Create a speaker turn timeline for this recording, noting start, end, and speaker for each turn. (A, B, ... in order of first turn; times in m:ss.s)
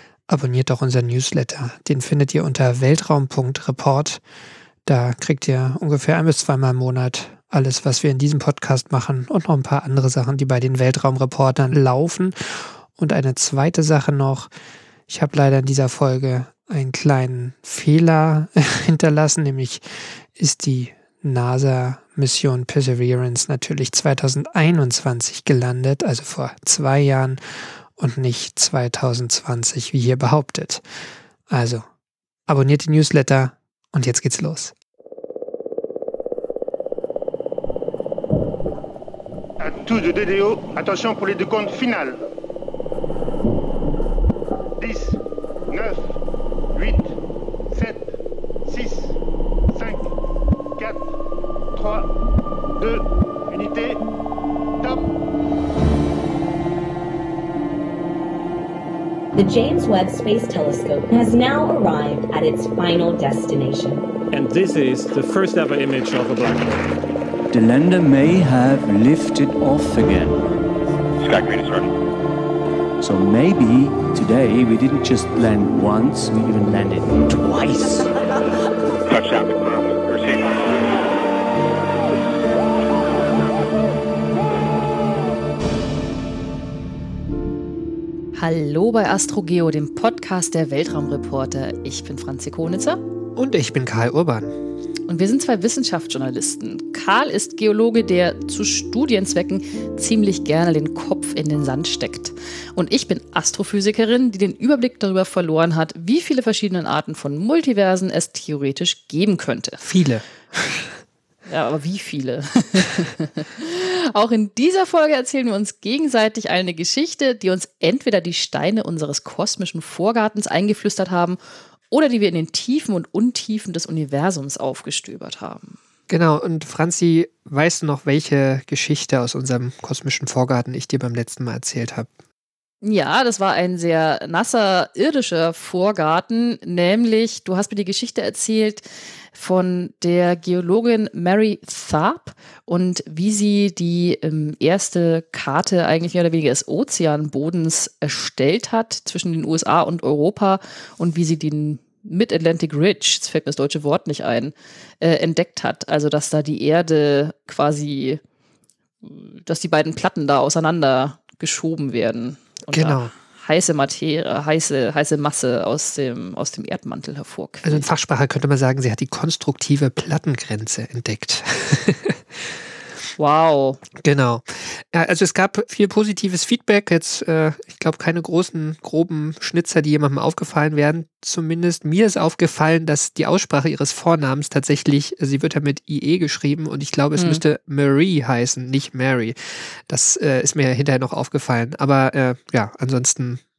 0:00.3-0:04.2 A
0:04.8-0:12.3 A
0:13.0-0:14.5 A
0:15.1-0:19.8 A
0:20.4-0:27.4 A
0:28.0-0:30.8 A
0:31.5-0:31.8 A
0:32.5-0:34.7 A
0:39.6-0:42.2 B
0:44.8-0:45.2 B
0:45.7-0:46.2 B
0:46.7-0:47.2 B
0:47.7-0:48.1 B
0:48.6-0:49.2 B
0:49.7-0:50.1 B
0:50.8-0:51.1 B
0:51.8-0:52.1 B
0:52.8-0:54.0 B
0:54.8-0:55.0 B
0:59.3-1:04.0 C
1:04.3-1:06.9 D
1:07.5-1:10.4 E
1:11.2-1:11.9 F
1:13.0-1:18.1 E
1:19.0-1:20.7 F
1:28.3-1:33.0 G
1:33.4-1:34.5 A
1:35.1-1:49.8 G
1:49.8-1:50.9 A
1:51.4-2:01.4 G
2:01.9-2:05.8 G
2:06.1-2:12.1 A
2:12.8-2:38.2 G
2:39.0-2:47.8 G
2:42.7-2:43.1 A
2:47.6-2:52.2 A
2:53.2-2:53.8 G
2:54.0-3:13.4 A
3:07.2-3:07.4 G